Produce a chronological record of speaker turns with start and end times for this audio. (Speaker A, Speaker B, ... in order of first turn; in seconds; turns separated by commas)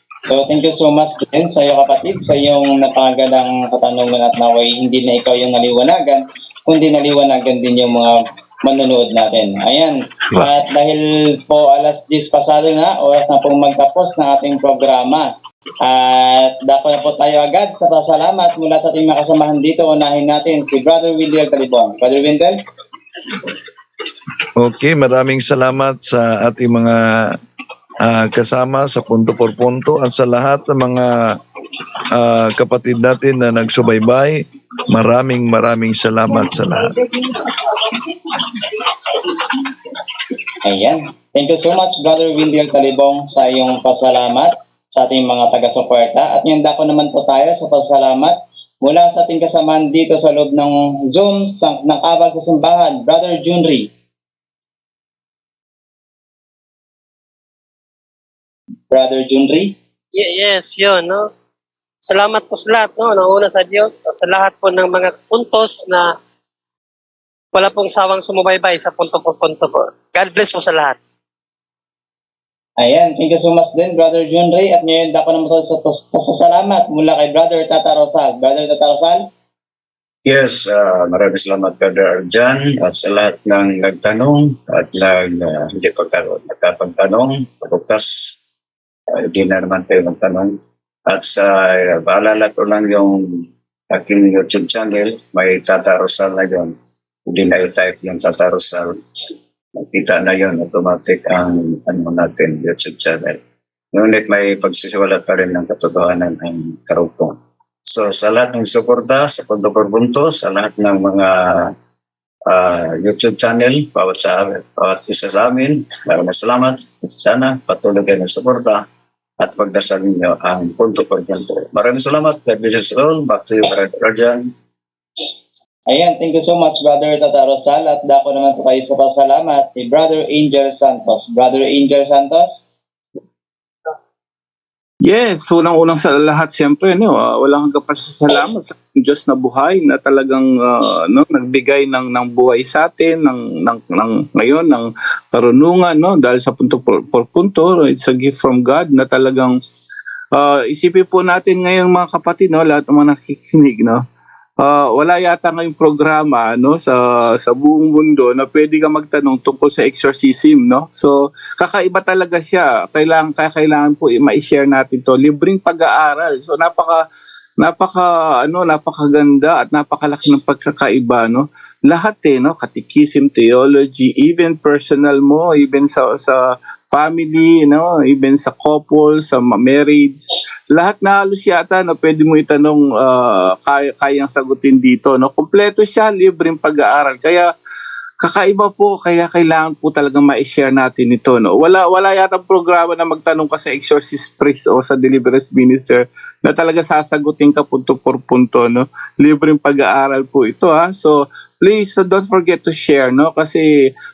Speaker A: 0.3-15.3, Speaker A: 15.8-22.6, Speaker B: 24.6-27.4, Speaker B: 28.0-31.4, Speaker B: 32.1-37.0, Speaker A: 40.6-53.9, Speaker A: 58.9-59.7, Speaker C: 60.1-61.2, Speaker C: 62.0-66.1, Speaker C: 67.5-71.0, Speaker A: 72.8-79.2, Speaker D: 80.2-88.4, Speaker D: 89.3-90.5, Speaker D: 91.1-96.7, Speaker D: 97.3-99.0, Speaker D: 99.8-103.4, Speaker D: 103.9-111.7, Speaker D: 112.5-118.8, Speaker D: 119.4-124.5, Speaker A: 125.9-132.7, Speaker E: 135.0-149.6, Speaker E: 150.3-154.0, Speaker E: 154.6-167.0, Speaker E: 167.6-187.5, Speaker E: 188.2-203.7